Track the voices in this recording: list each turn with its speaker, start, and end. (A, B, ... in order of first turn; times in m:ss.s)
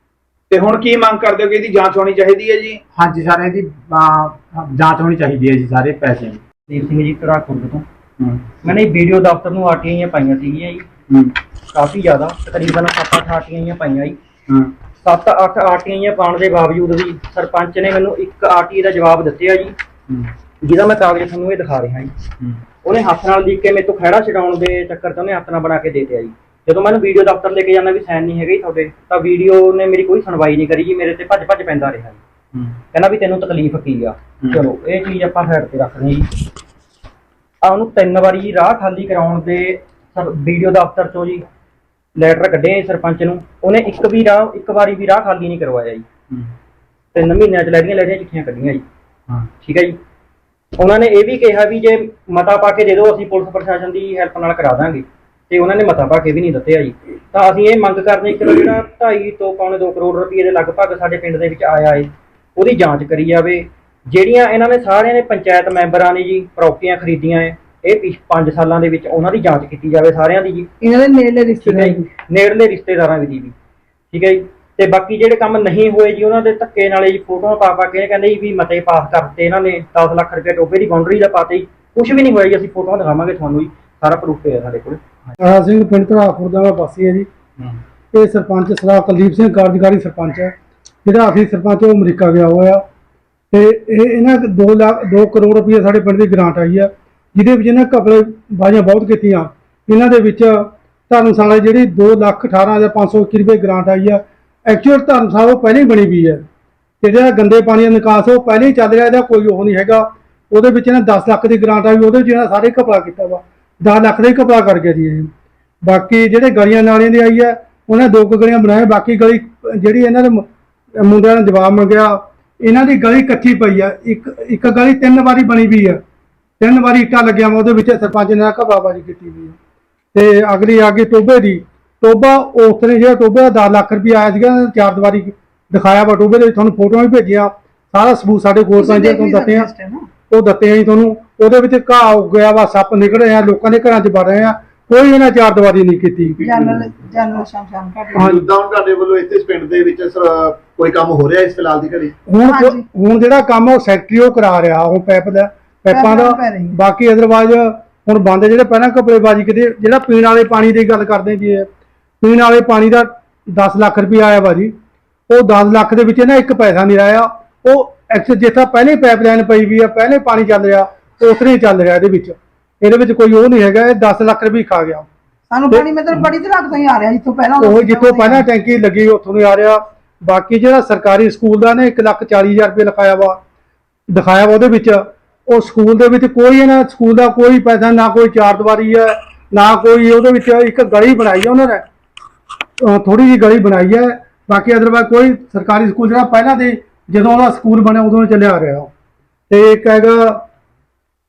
0:00.5-0:02.8 A
0:02.9-0:06.4 B
0:06.7-0:07.8 C
0:08.6-0:10.8 C
0:11.7-0:14.2 C
0:15.0-0:19.7 C
0:20.6-0:22.1 C
0:22.8-0:32.2 C
0:32.9-0:36.3 C
0:37.6-0:41.4 C
0:42.1-0:46.0 C
0:47.1-0:48.8 C
0:49.6-0:50.0 C
0:50.8-1:10.7 C
1:10.8-1:12.1 D
1:11.6-1:13.5 C
1:14.1-1:25.3 C
1:25.4-1:27.3 E
1:28.1-1:30.5 E
1:31.0-1:32.8 E
1:33.5-1:46.4 E
1:47.0-1:55.3 E
1:55.8-2:00.4 E
2:01.0-2:06.0 E
2:06.6-2:09.6 E
2:10.1-2:19.7 E
2:18.8-2:20.1 D
2:20.3-2:26.7 E
2:26.4-2:28.3 D
2:28.2-2:28.5 E
2:28.2-2:32.1 F
2:32.3-2:41.7 E
2:32.4-2:32.8 D
2:35.9-2:36.7 D
2:42.2-2:44.7 E
2:45.3-2:55.1 E
2:55.5-2:58.4 D
2:57.6-3:03.4 E
3:04.1-3:11.8 E
3:12.8-3:18.9 E
3:19.5-3:20.4 E